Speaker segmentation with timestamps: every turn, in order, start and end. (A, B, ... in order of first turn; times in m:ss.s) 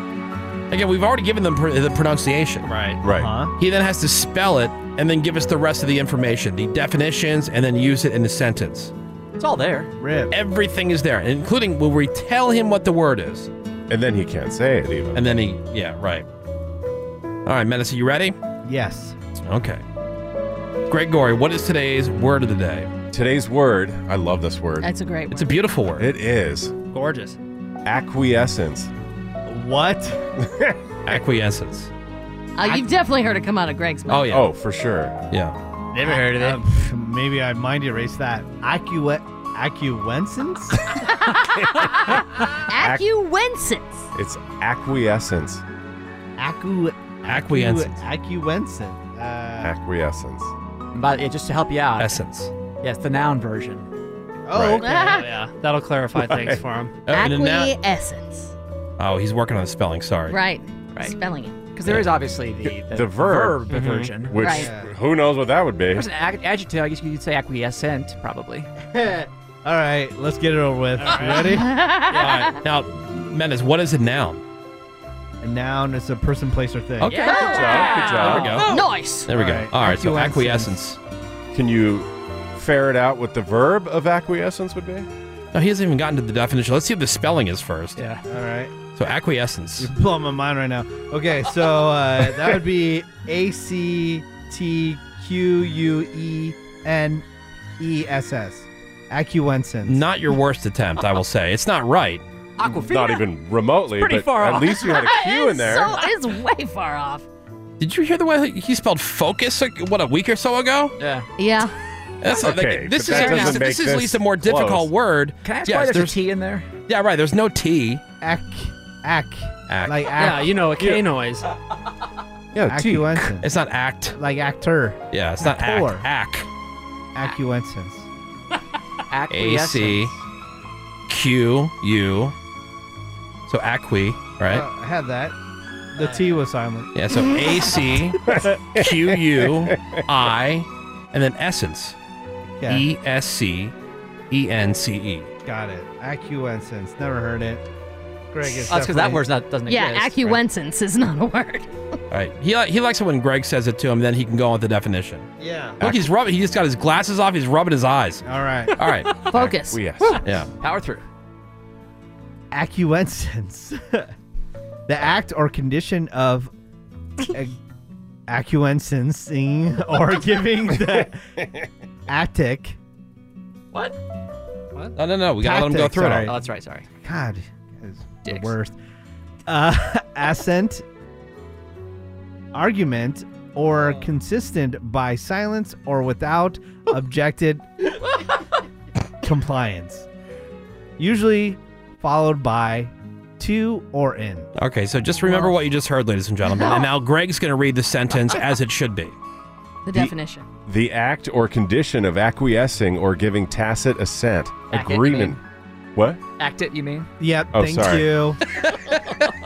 0:00.7-0:02.7 A
0:02.6-0:03.0 B
0:03.0-0:03.3 C
0:03.1-0:03.5 D
0:03.6-0:08.9 A
0:09.4-0:09.9 E
0:10.0-0:10.3 D
0:10.3-0:13.5 A
0:13.9-0:15.2 C
0:15.1-0:16.2 A
0:17.4-0:18.3 A
0:18.6-0:19.2 D
0:19.4-0:19.8 A
0:20.9-0:22.9 A
0:23.1-0:24.9 C
0:24.8-0:25.5 F
0:25.3-0:26.1 A
0:26.0-0:26.7 C
0:26.9-0:27.4 B
0:27.8-0:28.9 C
0:29.5-0:30.2 D
0:30.4-0:30.8 C
0:31.0-0:31.9 A
0:32.6-0:34.3 F
0:34.1-0:34.5 A
0:34.3-0:35.2 C
0:35.3-0:35.6 A
0:35.9-0:36.6 B
0:36.0-0:41.0 D
0:41.0-0:41.7 F
0:42.7-0:44.1 F
0:42.7-0:43.0 C
0:44.1-0:45.6 C
0:46.4-0:49.7 D
0:47.2-0:48.0 A
0:49.6-0:50.5 C
0:50.9-0:52.2 E
0:52.0-0:52.5 A
0:52.8-0:53.9 E
0:54.4-0:55.3 D
0:54.5-0:54.8 C
0:54.8-0:55.3 F
0:54.9-0:57.0 B
0:56.1-0:56.6 C
0:57.1-0:57.7 A
0:57.1-0:58.5 F
0:59.0-1:00.4 A
1:00.3-1:01.6 F
1:01.7-1:04.5 E
1:02.9-1:06.1 C
1:03.7-1:04.1 B
1:04.4-1:04.7 F
1:04.5-1:04.9 D
1:05.9-1:08.7 E
1:08.9-1:11.8 D
1:11.0-1:12.5 B
1:11.5-1:12.6 F
1:12.5-1:14.4 A
1:15.4-1:17.4 D
1:17.0-1:17.3 A
1:17.1-1:18.8 E
1:17.2-1:17.9 F
1:17.3-1:18.6 B
1:17.4-1:18.6 C
1:18.2-1:18.7 A
1:18.6-1:19.3 F
1:19.3-1:21.0 A
1:19.3-1:20.7 D
1:21.5-1:25.1 C
1:25.5-1:28.0 A
1:28.3-1:28.7 D
1:29.0-1:29.9 A
1:29.8-1:37.2 D
1:37.8-1:40.0 D
1:39.8-1:42.2 A
1:42.6-1:43.2 E
1:42.6-1:46.0 C
1:44.0-1:45.1 E
1:44.8-1:47.2 F
1:47.8-1:50.9 A
1:51.0-1:51.3 E
1:51.4-1:51.7 F
1:52.2-1:56.1 A
1:52.3-1:54.9 C
1:53.1-1:53.6 F
1:55.4-1:56.7 E
1:56.9-1:58.0 A
1:58.2-2:00.6 D
1:59.7-2:00.2 A
2:00.2-2:01.5 B
2:00.8-2:01.0 C
2:02.5-2:03.4 C
2:02.7-2:03.5 D
2:03.4-2:04.2 A
2:04.2-2:06.0 D
2:05.1-2:06.5 A
2:07.1-2:08.1 D
2:09.1-2:10.2 E
2:09.3-2:10.1 A
2:11.1-2:12.3 A
2:13.5-2:14.6 A
2:14.5-2:15.3 D
2:15.9-2:16.9 D
2:16.0-2:16.3 B
2:16.9-2:22.0 A
2:18.3-2:20.0 C
2:22.6-2:22.8 D
2:22.7-2:23.7 A
2:24.3-2:25.3 A
2:25.4-2:27.6 D
2:28.3-2:29.2 D
2:28.7-2:30.4 E
2:29.7-2:31.7 F
2:32.1-2:35.3 A
2:35.4-2:35.8 D
2:35.8-2:36.1 C
2:35.8-2:38.2 A
2:38.2-2:38.8 D
2:38.8-2:39.1 A
2:39.3-2:39.8 F
2:39.3-2:40.2 C
2:40.2-2:40.5 A
2:40.6-2:41.0 E
2:42.5-2:44.1 D
2:44.9-2:46.5 D
2:47.3-2:47.6 D
2:48.3-2:51.2 D
2:52.1-2:52.8 D
2:55.0-2:56.3 A
2:55.4-2:56.4 D
2:56.3-2:56.8 E
2:57.0-2:58.7 D
2:58.2-2:58.5 E
2:59.5-3:00.8 D
3:02.5-3:07.7 D
3:09.2-3:10.0 D
3:11.0-3:14.5 D
3:14.6-3:19.2 A
3:15.2-3:15.5 F
3:16.5-3:16.8 F
3:19.8-3:20.4 F
3:20.7-3:25.4 C
3:24.7-3:25.4 E
3:25.9-3:26.2 C
3:26.4-3:27.1 E
3:27.2-3:28.4 D
3:27.5-3:28.2 C